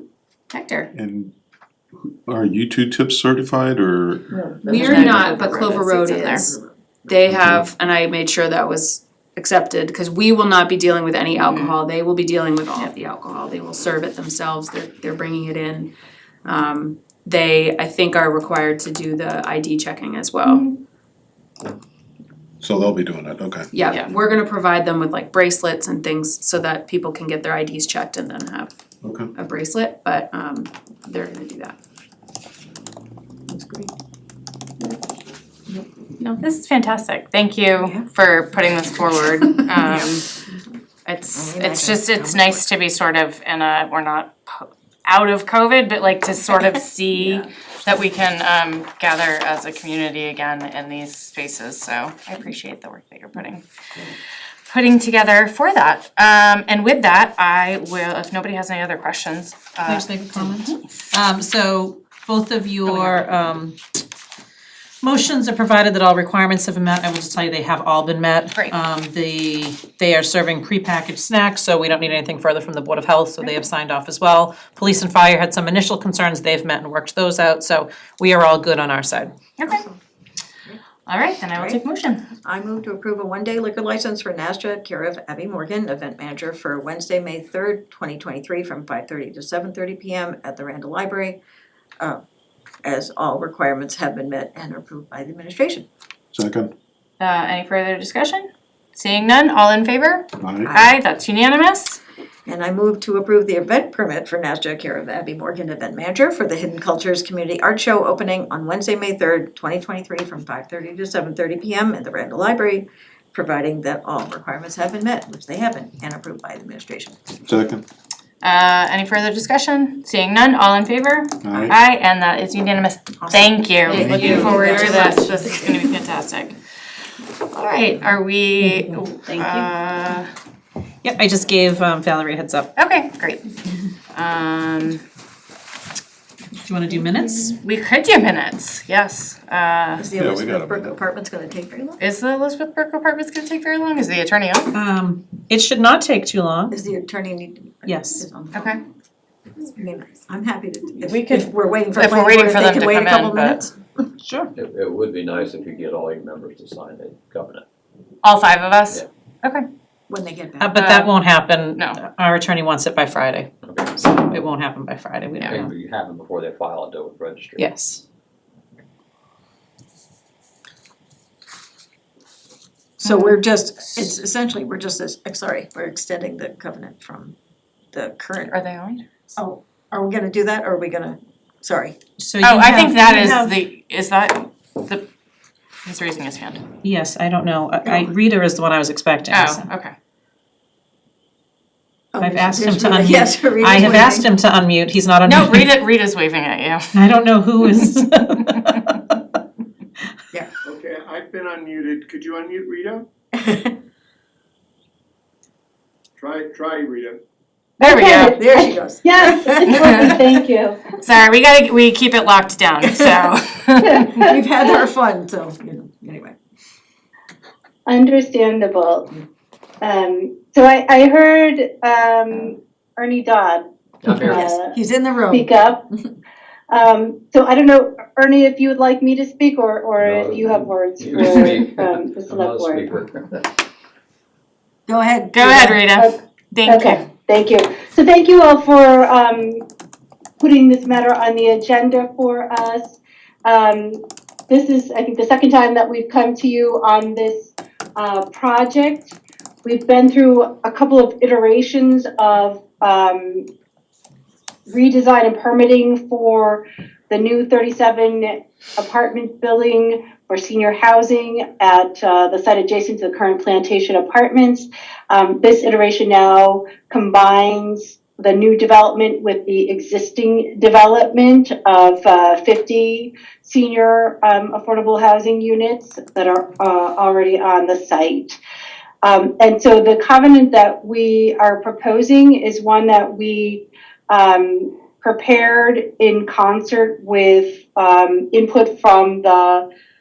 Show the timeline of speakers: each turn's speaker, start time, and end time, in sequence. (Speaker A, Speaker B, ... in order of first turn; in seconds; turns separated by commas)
Speaker A: 0.5-0.9, Speaker B: 0.9-1.3, Speaker B: 2.3-4.2, Speaker C: 4.3-6.8, Speaker D: 4.7-6.5, Speaker A: 4.7-6.5, Speaker D: 7.1-15.9, Speaker A: 11.4-11.8, Speaker D: 16.4-20.6, Speaker A: 20.4-20.7, Speaker B: 22.6-23.6, Speaker D: 23.7-28.7, Speaker B: 29.0-29.3, Speaker D: 29.3-31.8, Speaker C: 33.5-33.9, Speaker A: 36.2-40.2, Speaker C: 37.8-38.0, Speaker C: 39.7-40.1, Speaker A: 41.0-53.6, Speaker C: 41.3-42.6, Speaker C: 47.1-47.5, Speaker A: 54.7-60.8, Speaker E: 59.9-63.8, Speaker A: 62.8-63.2, Speaker E: 65.0-79.3, Speaker A: 79.6-79.8, Speaker C: 79.7-80.0, Speaker A: 81.0-82.2, Speaker C: 81.5-81.8, Speaker C: 82.4-91.4, Speaker C: 92.8-95.9, Speaker B: 96.3-96.7, Speaker A: 97.2-102.0, Speaker B: 100.4-100.7, Speaker C: 100.6-101.0, Speaker C: 102.5-117.3, Speaker B: 117.5-117.8, Speaker A: 118.4-126.5, Speaker B: 121.5-121.7, Speaker C: 123.2-125.8, Speaker D: 123.9-125.2, Speaker B: 124.0-124.4, Speaker E: 124.3-125.2, Speaker A: 127.5-130.3, Speaker E: 128.6-129.7, Speaker E: 131.0-132.7, Speaker A: 132.8-133.4, Speaker A: 134.1-135.0, Speaker E: 136.6-137.6, Speaker A: 137.6-140.1, Speaker C: 140.0-142.0, Speaker B: 140.1-141.0, Speaker A: 142.0-144.7, Speaker E: 144.7-146.7, Speaker C: 146.7-148.7, Speaker E: 147.8-148.2, Speaker A: 148.5-148.8, Speaker C: 149.7-153.7, Speaker A: 151.0-153.6, Speaker E: 154.2-154.5, Speaker F: 154.5-157.6, Speaker A: 158.2-159.6, Speaker C: 160.1-160.8, Speaker E: 160.6-165.7, Speaker A: 160.7-161.1, Speaker F: 163.6-163.9, Speaker F: 165.5-167.7, Speaker E: 167.6-168.0, Speaker C: 173.0-177.3, Speaker E: 173.1-173.3, Speaker C: 177.9-178.6, Speaker A: 178.5-179.0, Speaker C: 179.3-182.0, Speaker E: 182.2-183.5, Speaker A: 182.4-185.0, Speaker A: 185.8-186.6, Speaker E: 186.8-189.7, Speaker C: 187.8-188.1, Speaker A: 189.3-189.9, Speaker C: 192.1-194.3, Speaker E: 192.2-195.8, Speaker A: 195.2-196.8, Speaker E: 196.9-199.0, Speaker G: 200.7-203.1, Speaker C: 203.4-203.7, Speaker G: 206.2-207.2, Speaker H: 207.8-210.8, Speaker A: 207.8-208.4, Speaker C: 208.2-210.4, Speaker A: 209.7-210.1, Speaker A: 211.0-214.1, Speaker C: 212.8-213.3, Speaker H: 214.0-214.4, Speaker C: 214.2-216.4, Speaker H: 217.8-219.2, Speaker H: 219.8-224.7, Speaker F: 224.0-224.5, Speaker C: 224.2-225.5, Speaker H: 225.3-225.8, Speaker H: 226.7-232.9, Speaker F: 230.0-233.5, Speaker C: 234.9-235.8, Speaker A: 235.3-237.0, Speaker H: 235.9-239.6, Speaker H: 240.4-253.5, Speaker H: 254.7-278.4, Speaker H: 279.0-289.6